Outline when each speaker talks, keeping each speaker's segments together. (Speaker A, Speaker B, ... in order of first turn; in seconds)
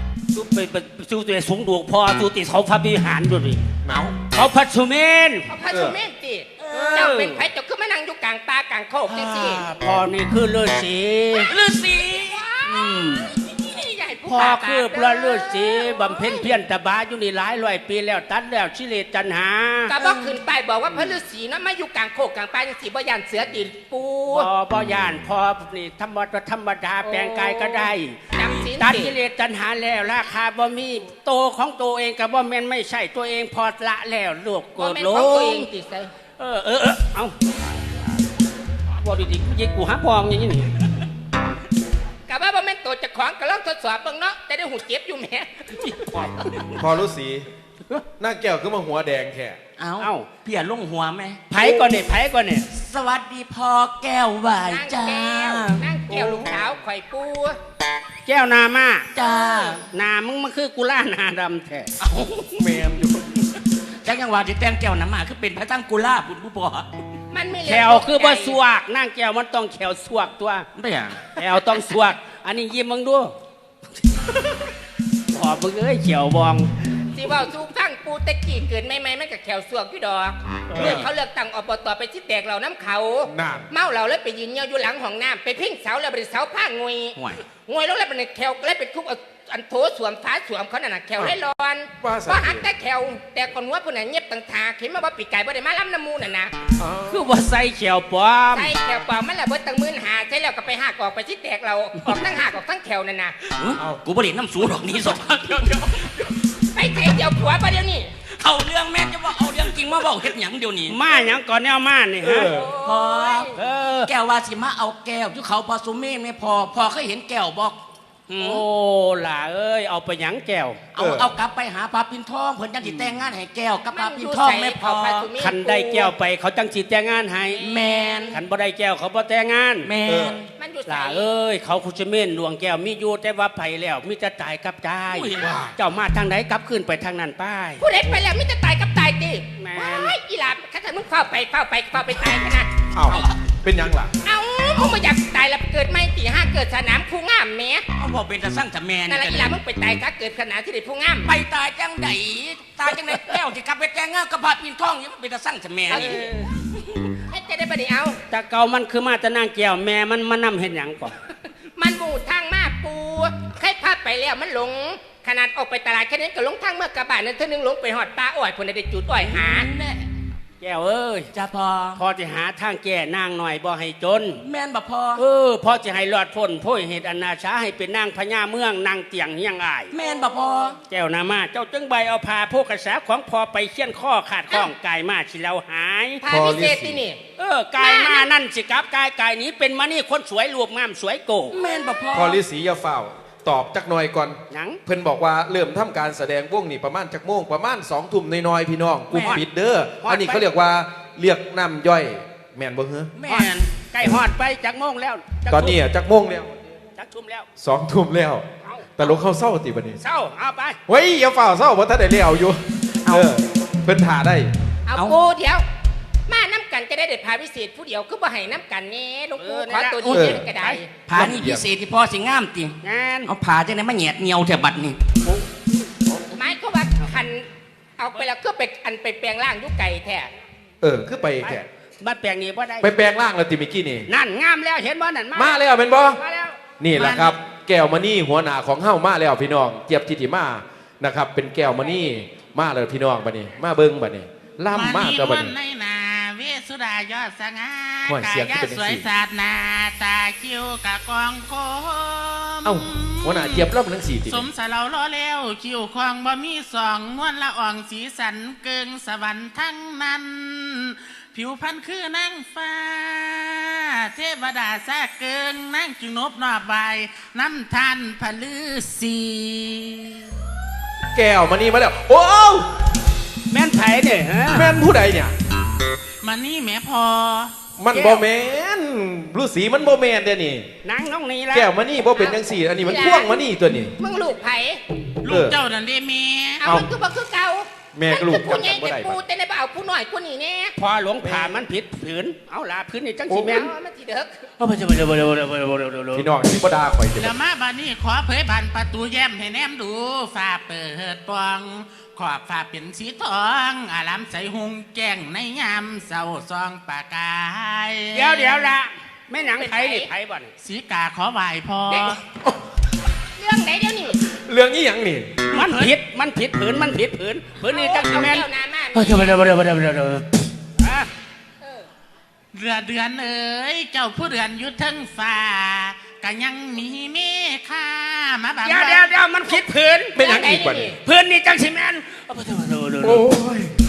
Speaker A: 0.3-3.6, 4.3-5.5, 6.7-7.4, 9.1-11.5, 12.7-13.3, 14.2-20.1, 24.3-35.7, 36.4-37.3, 39.0-40.7, 45.8-46.8, 50.0-50.3, 51.5-52.7, 58.3-61.9, 67.6-70.7, 71.3-73.3, 75.3-76.7, 97.1-98.7, 110.9-112.5, 113.5-114.1, 118.4-120.8, 125.4-127.6, 128.3-129.9, 130.9-137.9, 139.6-140.2, 152.9-153.4, 155.9-156.6, 158.3-161.2, 170.6-171.3, 171.9-174.4, 175.2-179.9, 180.9-186.2, 187.4-191.6, 194.5-194.8, 199.1-199.4, 200.0-200.5, 203.2-205.8, 206.9-207.5, 210.0-210.8, 219.4-220.8, 222.8-223.3, 231.4-232.9, 234.1-235.6, 236.2-236.6, 273.5-274.8, 277.9-278.2, 280.8-281.7, 290.8-293.7, 294.6-296.3, 308.1-310.5, 315.5-321.1, 328.6-330.2, 331.0-333.2
Speaker B: 3.8-4.2, 5.7-6.0, 46.7-47.5, 48.2-49.6, 56.1-56.5, 62.6-63.4, 80.7-81.1, 83.3-83.7, 92.0-92.7, 96.8-97.3, 105.4-106.3, 112.2-112.7, 121.0-121.3, 130.1-130.4, 135.4-135.7, 142.9-144.1, 186.3-187.0, 192.1-203.1, 205.5-206.5, 207.6-208.4, 209.0-210.0, 210.9-214.5, 220.1-220.5, 221.1-221.7, 226.1-226.3, 230.8-231.7, 232.8-234.1, 235.3-236.2, 236.8-245.5, 248.1-249.1, 252.7-254.5, 271.1-272.7, 274.5-275.3, 277.8-280.7, 281.5-284.0, 285.3-285.6, 287.9-289.2, 291.2-291.6, 293.3-293.6, 296.1-297.4, 314.3-315.4, 330.1-331.0, 333.0-333.7
Speaker C: 5.5-9.7, 11.4-16.4, 19.9-24.5, 27.0-29.2, 34.8-36.1, 42.3-45.8, 54.6-57.6, 67.3-68.6, 77.0-96.5, 98.5-103.4, 106.7-108.2, 112.4-113.6, 123.9-126.1, 127.5-128.4, 130.6-131.3, 137.8-142.9, 144.2-147.8, 149.1-151.3, 155.9-156.3, 157.3-158.2, 161.8-169.7, 186.2-187.2, 187.8-188.3, 214.9-215.6, 216.3-220.9, 226.3-230.3, 282.2-283.5, 284.0-284.8, 286.6-290.7, 293.4-294.5, 309.4-310.1, 311.9-312.2, 313.4-314.2, 317.7-319.4, 330.2-331.0
Speaker D: 6.7-7.1, 11.4-12.4, 49.8-51.5, 52.7-55.9, 59.1-59.8, 62.0-62.8, 64.0-66.9, 70.8-71.3, 87.2-87.4, 103.6-105.8, 108.3-111.0, 112.8-118.6, 121.0-125.3, 127.6-128.4, 129.8-130.5, 135.1-135.7, 147.9-149.6, 151.2-156.3, 169.2-170.1, 171.3-172.0, 174.3-175.2, 179.9-180.8, 191.5-192.4, 203.2-203.7, 213.1-213.4, 214.9-215.2, 221.1-225.0
Speaker E: 236.9-237.3, 244.7-253.7, 254.2-270.3, 276.2-277.6, 285.2-286.7, 297.2-308.7, 310.6-312.2, 322.5-329.1